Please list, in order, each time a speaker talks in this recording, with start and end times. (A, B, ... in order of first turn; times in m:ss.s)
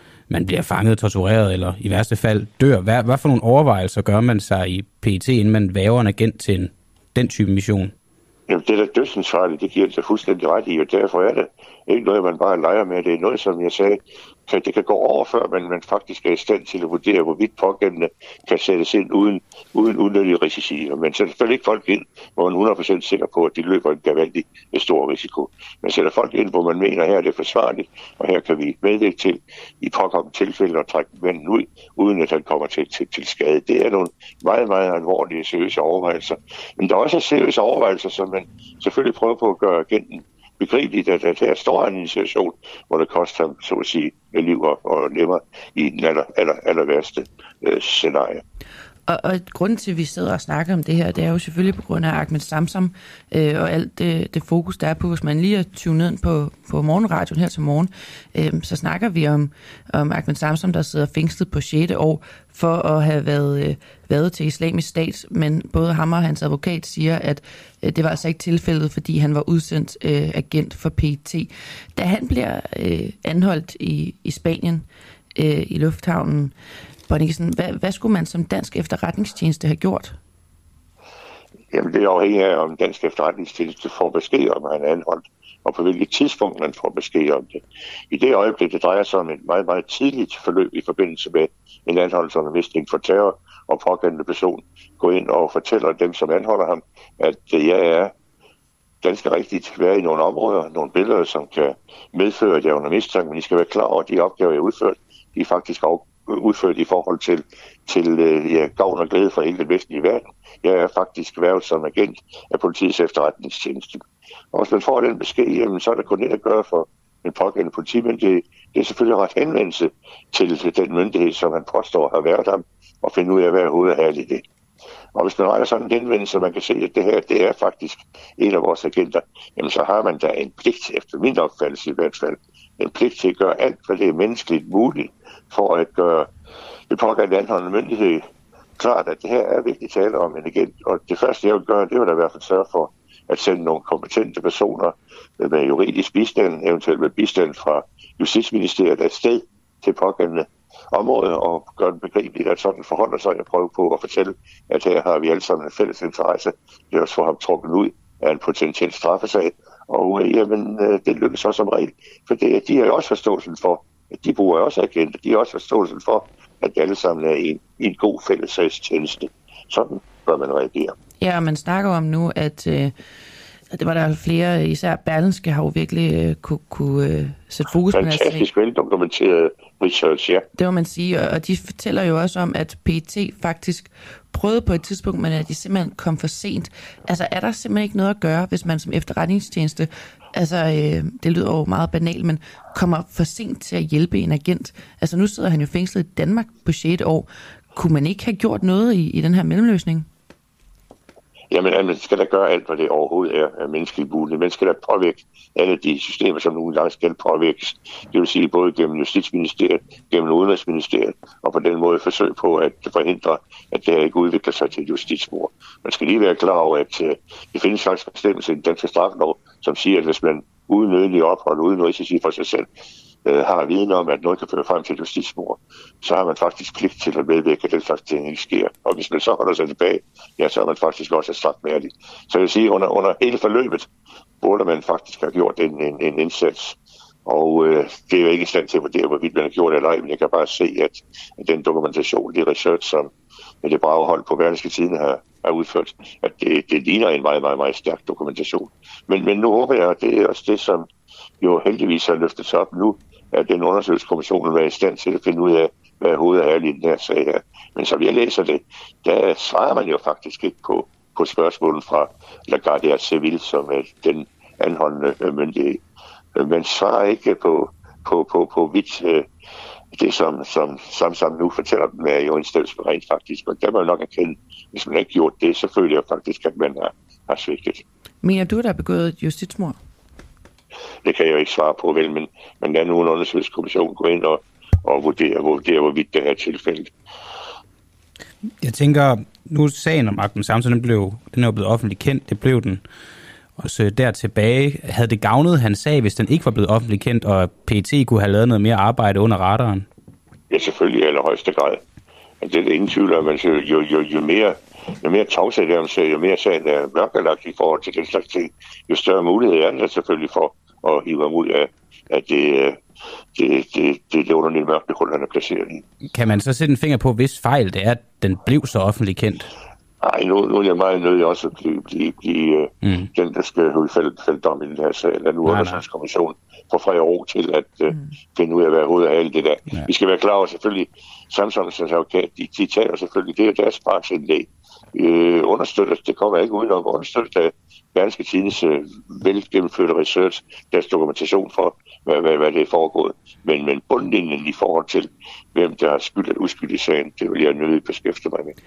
0:00.3-0:07.9 A
0:08.5-0:48.4 B
0:49.1-1:16.5 C
1:17.1-1:20.2 C
1:21.7-1:38.1 B
1:39.0-2:04.4 B
2:05.2-2:16.3 B
2:16.9-2:18.2 B
2:18.8-2:51.0 B
2:51.2-2:52.9 C
2:53.7-2:58.5 C
2:57.9-3:00.5 B
3:00.6-3:20.1 C
3:21.5-3:42.7 B
3:43.2-3:53.9 B
3:54.4-4:03.1 B
4:03.6-4:10.9 B
4:11.4-4:25.8 B
4:26.4-4:29.3 B
4:29.9-4:37.8 B
4:38.2-4:39.8 C
4:41.0-4:46.9 B
4:48.6-4:52.8 A
4:53.6-4:59.9 A
5:00.5-5:01.8 B
5:02.4-5:12.8 B
5:13.3-5:15.8 B
5:16.1-5:19.5 A
5:20.0-5:48.6 B
5:25.4-5:25.8 A